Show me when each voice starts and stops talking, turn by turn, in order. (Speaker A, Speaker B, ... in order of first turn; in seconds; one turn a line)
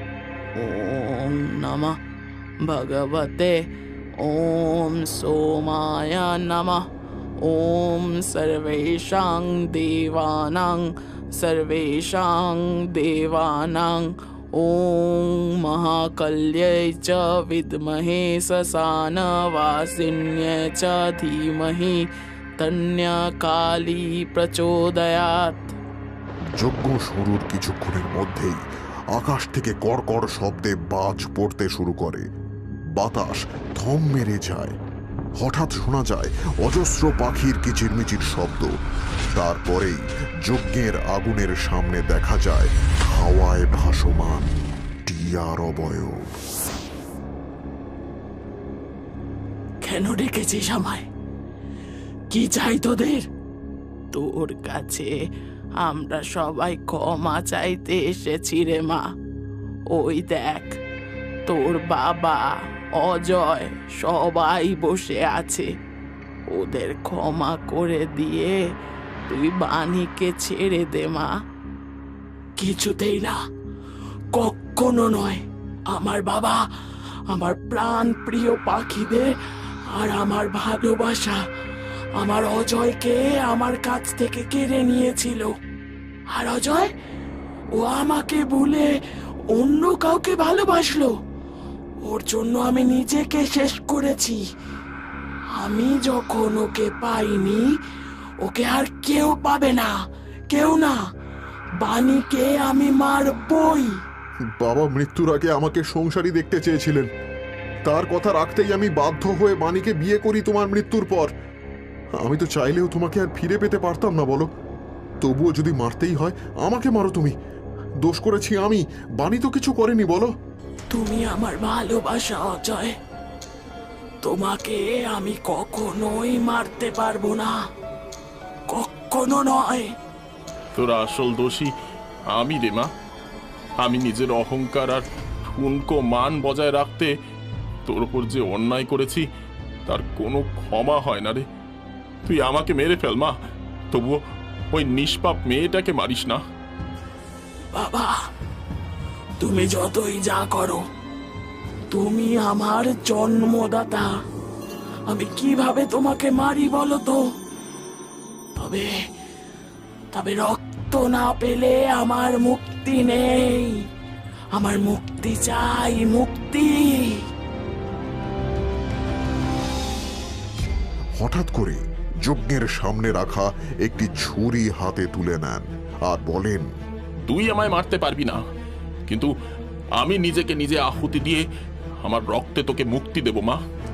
Speaker A: 0.6-1.9
Speaker A: 2.6-3.5
Speaker A: 4.2-6.8
Speaker A: 7.4-22.0
Speaker A: 22.6-25.7
Speaker B: 26.6-32.2
Speaker B: 33.0-34.8
Speaker B: 35.4-38.7
Speaker B: 39.4-44.5
Speaker B: 45.0-46.4
Speaker A: 49.8-51.0
Speaker A: 52.3-53.2
Speaker A: 54.1-55.1
Speaker A: 55.8-59.0
Speaker A: 59.9-60.8
Speaker A: 61.5-65.7
Speaker A: 66.5-68.6
Speaker A: 69.3-71.3
Speaker A: 72.6-73.3
Speaker A: 74.3-76.6
Speaker A: 77.3-79.3
Speaker A: 79.9-81.4
Speaker A: 82.2-85.5
Speaker A: 86.3-86.9
Speaker A: 87.7-88.9
Speaker A: 89.5-91.1
Speaker A: 92.0-94.4
Speaker A: 95.5-97.7
Speaker A: 98.4-99.9
Speaker A: 100.5-101.0
Speaker A: 101.8-104.0
Speaker B: 104.6-107.1
Speaker B: 107.8-111.3
Speaker B: 112.2-114.5
Speaker B: 115.2-117.3
Speaker B: 118.0-120.3
Speaker A: 120.9-122.9
Speaker A: 124.2-127.6
Speaker A: 128.7-129.9
Speaker C: 130.7-131.7
Speaker C: 132.3-132.9
Speaker C: 133.8-137.1
Speaker C: 137.8-139.2
Speaker C: 139.8-141.4
Speaker C: 142.2-143.3
Speaker C: 143.9-144.2
Speaker C: 144.7-146.4
Speaker A: 147.7-148.1
Speaker A: 149.4-150.8
Speaker A: 151.9-154.1
Speaker A: 155.1-157.2
Speaker A: 158.6-159.0
Speaker A: 160.1-163.8
Speaker A: 164.5-167.2
Speaker B: 171.2-176.7
Speaker C: 177.3-178.4
Speaker C: 180.0-181.4
Speaker C: 182.0-183.6